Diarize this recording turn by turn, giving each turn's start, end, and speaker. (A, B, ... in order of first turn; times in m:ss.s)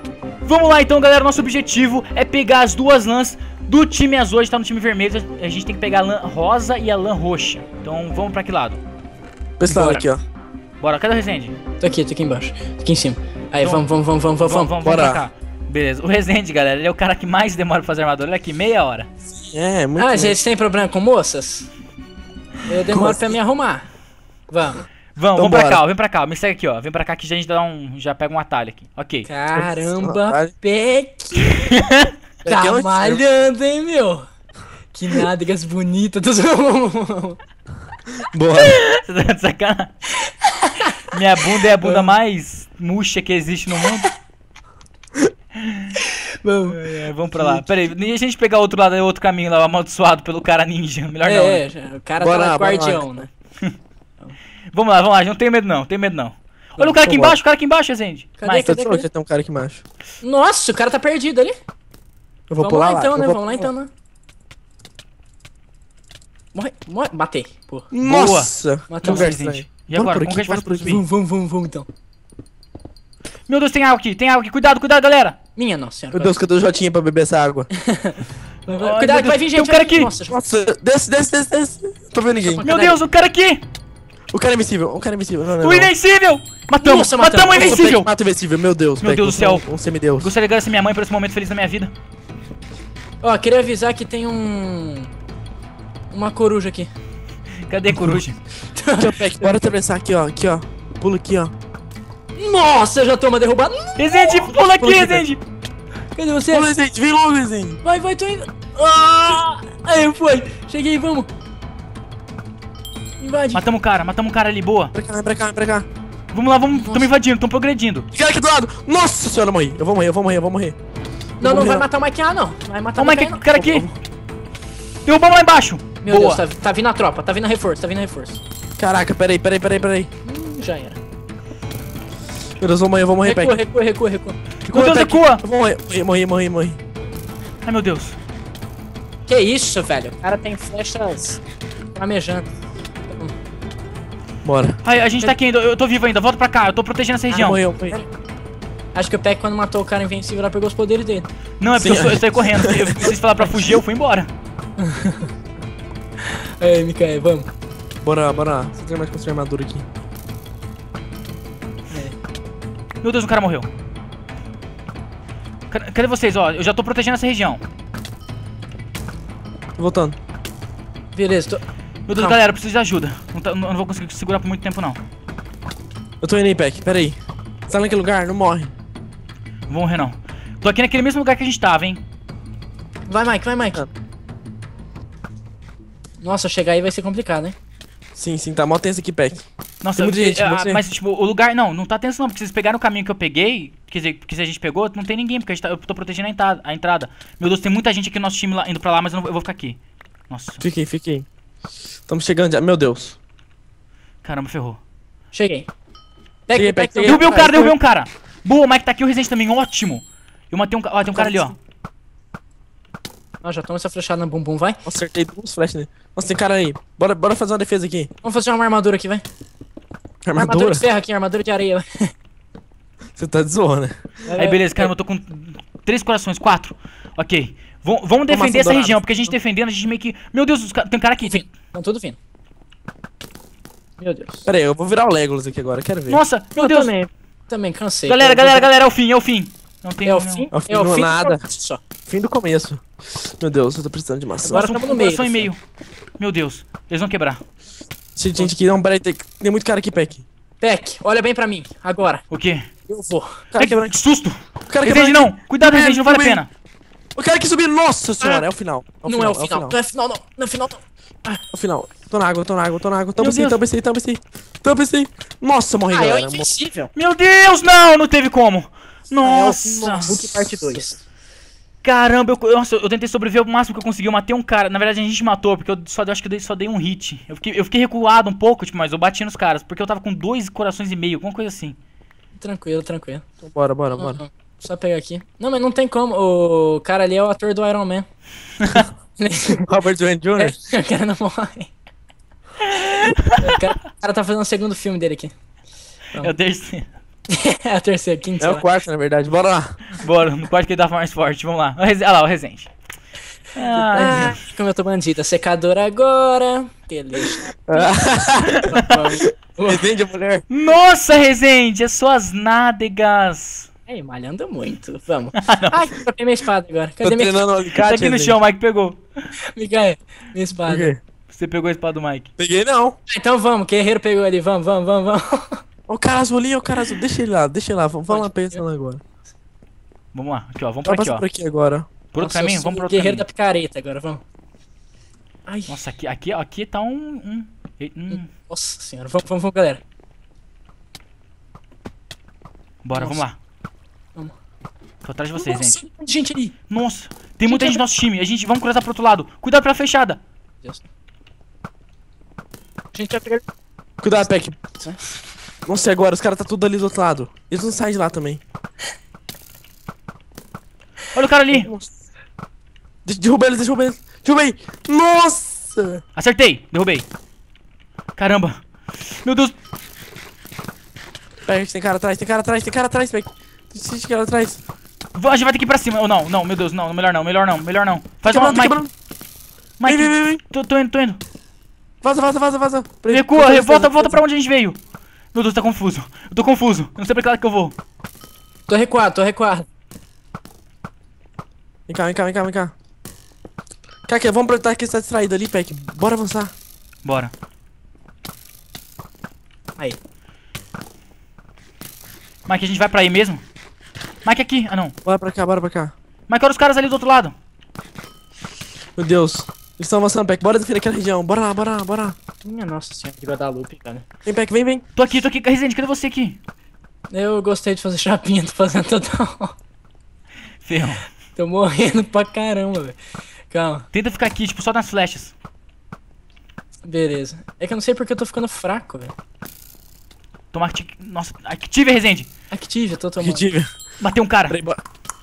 0:00.4-0:08.8 A
0:09.6-0:10.2 B
0:09.7-0:10.1 C
0:10.8-0:11.6 A
0:11.8-0:14.8 C
0:13.6-0:13.8 A
0:14.4-0:19.1 A
0:14.8-0:15.2 B
0:19.3-0:20.4 B
0:20.0-0:21.7 C
0:22.7-0:23.9 C
0:22.9-0:23.3 B
0:24.5-0:24.8 C
0:25.2-0:29.3 A
0:25.4-0:25.8 B
0:29.3-0:31.6 C
0:29.6-0:30.5 B
0:31.5-0:32.1 A
0:32.4-0:33.2 B
0:32.5-0:34.3 C
0:34.9-0:37.4 C
0:38.2-0:38.8 B
0:38.6-0:39.9 A
0:40.2-0:40.9 C
0:41.1-0:44.1 A
0:45.6-0:46.0 A
0:46.0-0:47.0 C
0:46.7-0:51.6 A
0:47.4-0:47.7 B
0:51.2-0:53.3 C
0:52.2-0:53.1 B
0:54.7-0:58.8 A
0:56.8-0:57.0 C
0:57.0-0:57.4 B
0:58.4-0:59.1 C
0:58.5-0:59.8 B
1:00.2-1:01.5 C
1:02.5-1:03.7 B
1:02.6-1:03.9 C
1:06.5-1:07.9 C
1:07.9-1:11.0 B
1:08.0-1:11.0 A
1:08.9-1:09.3 C
1:10.9-1:11.9 C
1:13.5-1:15.4 A
1:15.6-1:16.4 C
1:16.1-1:17.7 B
1:17.7-1:20.4 C
1:18.8-1:20.1 A
1:20.3-1:22.7 B
1:22.4-1:23.0 C
1:22.6-1:23.6 A
1:24.3-1:25.9 B
1:25.6-1:28.1 A
1:26.8-1:27.8 C
1:27.6-1:30.3 B
1:29.0-1:29.6 A
1:30.2-1:31.9 A
1:33.2-1:35.1 C
1:36.1-1:36.9 C
1:37.7-1:38.4 A
1:38.8-1:39.8 C
1:39.0-1:41.5 B
1:42.4-1:44.1 C
1:44.0-1:45.4 A
1:44.6-1:45.3 B
1:46.2-1:46.7 C
1:46.5-1:47.8 B
1:47.8-1:51.3 C
1:53.2-1:53.6 C
1:53.5-1:54.9 A
1:54.9-1:55.9 B
1:56.3-1:58.1 A
1:56.7-1:57.1 C
1:58.1-2:00.8 B
2:01.4-2:03.6 C
2:01.4-2:01.9 B
2:03.0-2:03.9 A
2:03.6-2:03.9 B
2:05.0-2:06.4 A
2:06.0-2:08.4 C
2:08.8-2:10.1 B
2:10.2-2:11.0 C
2:12.6-2:13.6 B
2:13.2-2:14.4 C
2:14.6-2:16.8 B
2:14.7-2:15.4 A
2:17.6-2:18.2 A
2:19.3-2:21.4 C
2:22.0-2:22.5 C
2:23.1-2:23.3 C
2:24.4-2:24.8 B
2:24.8-2:27.6 A
2:27.3-2:28.0 B
2:28.9-2:31.3 C
2:31.6-2:34.3 A
2:31.7-2:33.1 B
2:34.8-2:35.3 C
2:36.6-2:37.5 C
2:38.0-2:39.9 B
2:41.9-2:42.2 C
2:43.0-2:43.7 A
2:45.7-2:47.6 A
2:49.8-2:50.2 B
2:51.1-2:51.6 C
2:52.1-2:55.0 A
2:56.2-2:57.2 B
2:57.7-2:58.7 B
2:59.7-3:02.0 A
3:03.1-3:03.8 C
3:06.2-3:07.6 C
3:08.2-3:10.8 B
3:09.8-3:20.6 A
3:20.6-3:21.3 B
3:22.1-3:23.2 B
3:24.2-3:24.8 A
3:25.3-3:25.7 C
3:26.5-3:27.5 C
3:26.5-3:27.8 B
3:27.0-3:31.6 A
3:31.1-3:31.5 B
3:33.4-3:34.8 C
3:34.8-3:38.1 B
3:38.2-3:39.2 C
3:40.2-3:40.9 B
3:40.4-3:42.0 C
3:43.2-3:44.4 B
3:44.3-3:44.7 C
3:44.3-3:51.4 A
3:48.3-3:49.3 B
3:51.2-3:52.2 C
3:54.0-3:54.5 C
3:54.4-3:56.2 B
3:56.1-3:56.9 A
3:56.6-3:58.7 C
3:58.1-4:00.5 A
4:00.0-4:01.8 C
4:00.5-4:01.4 B
4:02.1-4:04.7 B
4:04.4-4:05.5 C
4:04.5-4:05.6 A
4:06.2-4:07.4 A
4:08.2-4:10.3 B
4:10.6-4:12.2 C
4:12.3-4:12.7 A
4:12.9-4:13.5 C
4:13.5-4:14.0 B
4:13.6-4:16.5 A
4:14.7-4:16.4 B
4:17.2-4:19.8 B
4:18.2-4:18.5 C
4:19.0-4:21.4 C
4:21.5-4:26.5 B
4:23.2-4:23.6 A
4:25.9-4:26.9 C
4:27.0-4:30.2 A
4:29.2-4:31.0 C
4:29.3-4:30.9 B
4:31.8-4:41.8 A
4:42.4-4:43.2 C
4:43.4-4:44.2 B
4:44.0-4:48.1 C
4:48.6-4:48.9 A
4:49.2-4:49.7 C
4:49.6-4:50.6 B
4:50.4-4:51.7 C
4:52.6-4:53.5 A
4:53.4-4:55.3 C
4:56.2-4:56.9 A
4:57.3-4:58.6 C
4:58.4-4:59.8 B
4:59.9-5:02.7 A
5:03.6-5:04.3 A
5:03.8-5:04.4 B
5:03.9-5:07.9 C
5:07.7-5:10.5 B
5:08.6-5:09.8 C
5:10.5-5:13.7 A
5:13.9-5:17.4 C
5:15.3-5:15.8 A
5:17.0-5:18.4 B
5:17.8-5:19.0 A
5:19.6-5:20.9 C
5:20.7-5:21.0 B
5:21.3-5:22.3 A
5:22.4-5:23.0 B
5:23.1-5:25.6 C
5:25.9-5:29.0 B
5:28.1-5:28.5 C
5:30.1-5:31.2 A
5:30.8-5:31.9 B
5:32.1-5:33.2 A
5:32.2-5:34.2 C
5:35.5-5:35.7 C
5:35.7-5:38.3 A
5:38.1-5:39.8 C
5:42.8-5:43.4 A
5:42.9-5:43.2 C
5:45.0-5:45.8 A
5:45.4-5:46.6 C
5:46.7-5:50.2 A
5:47.5-5:47.8 C
5:52.9-5:53.4 C
5:54.0-5:54.6 B
5:55.7-5:58.4 B
6:01.1-6:01.7 A
6:01.5-6:01.9 B
6:03.0-6:06.0 B
6:06.2-6:07.1 A
6:08.2-6:09.6 A
6:11.4-6:14.6 B
6:15.2-6:18.8 A
6:18.3-6:18.9 B
6:19.8-6:21.2 A
6:19.9-6:20.4 B
6:22.0-6:24.2 B
6:23.1-6:24.8 A
6:25.3-6:27.8 A
6:28.7-6:29.7 C
6:31.9-6:32.7 B
6:34.1-6:36.5 B
6:37.0-6:37.3 A
6:42.5-6:43.4 A
6:44.2-6:45.0 A
6:45.0-6:45.9 B
6:46.3-6:47.4 A
6:49.0-6:52.2 B
6:52.4-6:54.0 C
6:54.2-6:54.8 B
6:55.0-6:56.4 A
6:57.1-6:59.6 C
7:00.6-7:01.1 A
7:01.4-7:03.0 C
7:03.5-7:03.9 C
7:03.9-7:05.3 A
7:06.8-7:09.1 C
7:10.5-7:12.3 A
7:12.5-7:13.5 C
7:13.2-7:13.7 B
7:14.0-7:14.6 A
7:14.5-7:14.8 B